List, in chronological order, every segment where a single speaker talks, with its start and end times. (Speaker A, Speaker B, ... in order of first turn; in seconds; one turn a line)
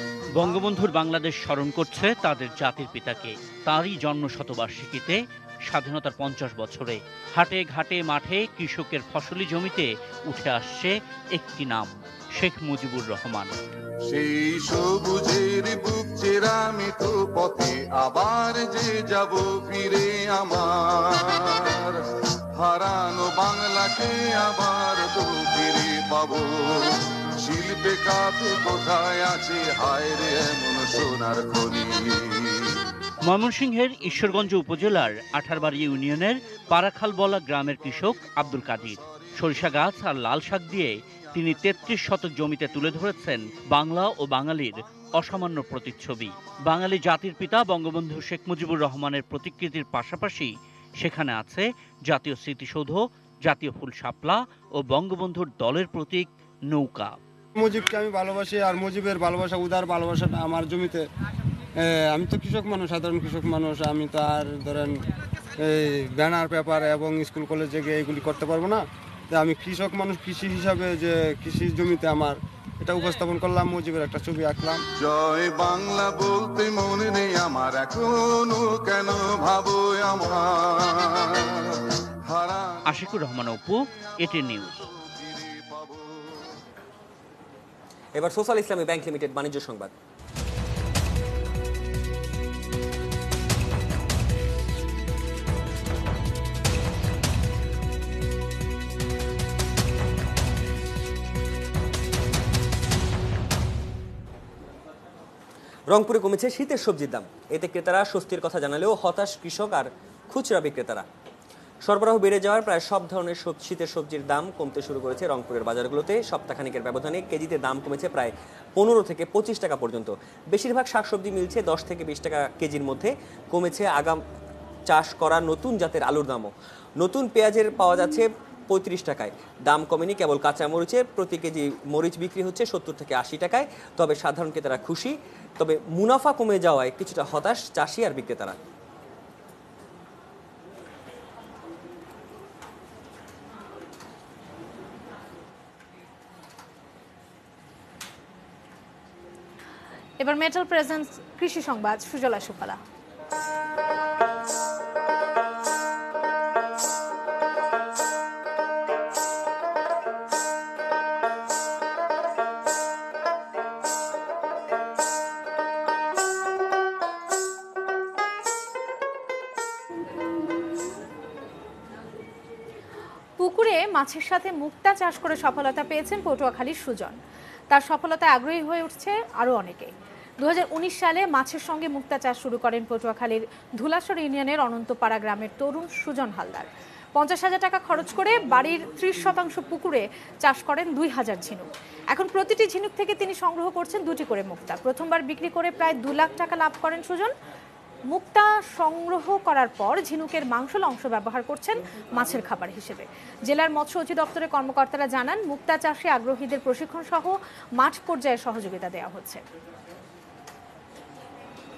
Speaker A: 0.3-13.6
Speaker B: 14.1-22.0
Speaker B: 22.6-32.8
Speaker A: 33.2-57.2
Speaker C: 57.6-61.0
Speaker C: 61.8-65.0
Speaker C: 65.6-74.8
Speaker B: 75.0-83.2
Speaker A: 82.9-84.8
Speaker B: 84.3-86.5
Speaker D: 88.1-89.9
Speaker D: 105.9-111.0
Speaker D: 111.8-124.2
Speaker D: 124.9-138.6
Speaker E: 150.2-152.8
Speaker E: 173.4-177.2
Speaker E: 177.7-197.3
Speaker E: 198.1-209.4